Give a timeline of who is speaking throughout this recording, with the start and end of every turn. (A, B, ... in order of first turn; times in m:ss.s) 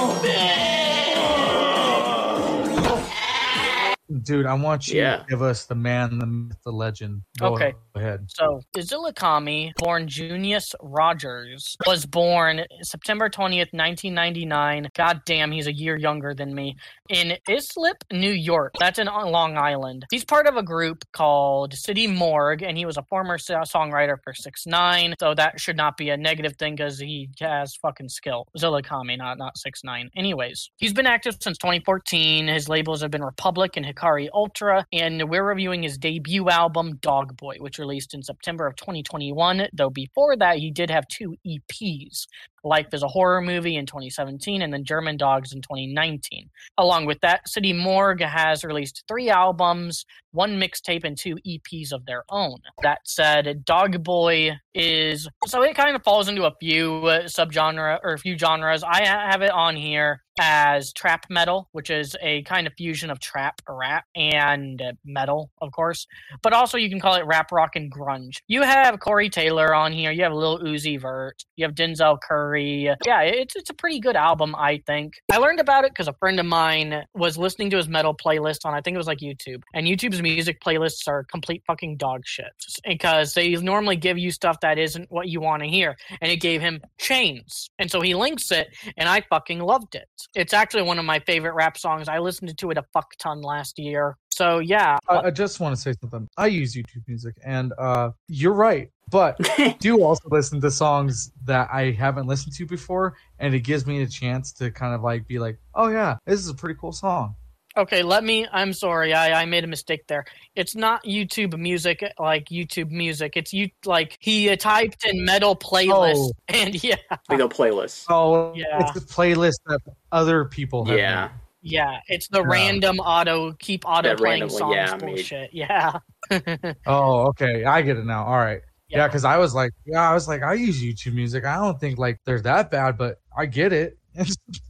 0:04.1-0:08.3 A
0:04.9-0:05.3 B
0:07.4-0:07.8 C
0:08.3-1:35.2 C
1:35.1-1:47.4 A
1:39.4-1:39.8 B
1:47.8-1:57.4 C
1:55.9-1:56.4 A
1:57.3-1:58.1 B
1:58.1-2:01.3 A
1:58.5-1:59.0 C
2:00.8-2:01.3 B
2:01.6-2:06.8 C
2:02.4-2:02.8 A
2:04.0-2:05.3 B
2:06.9-2:14.4 A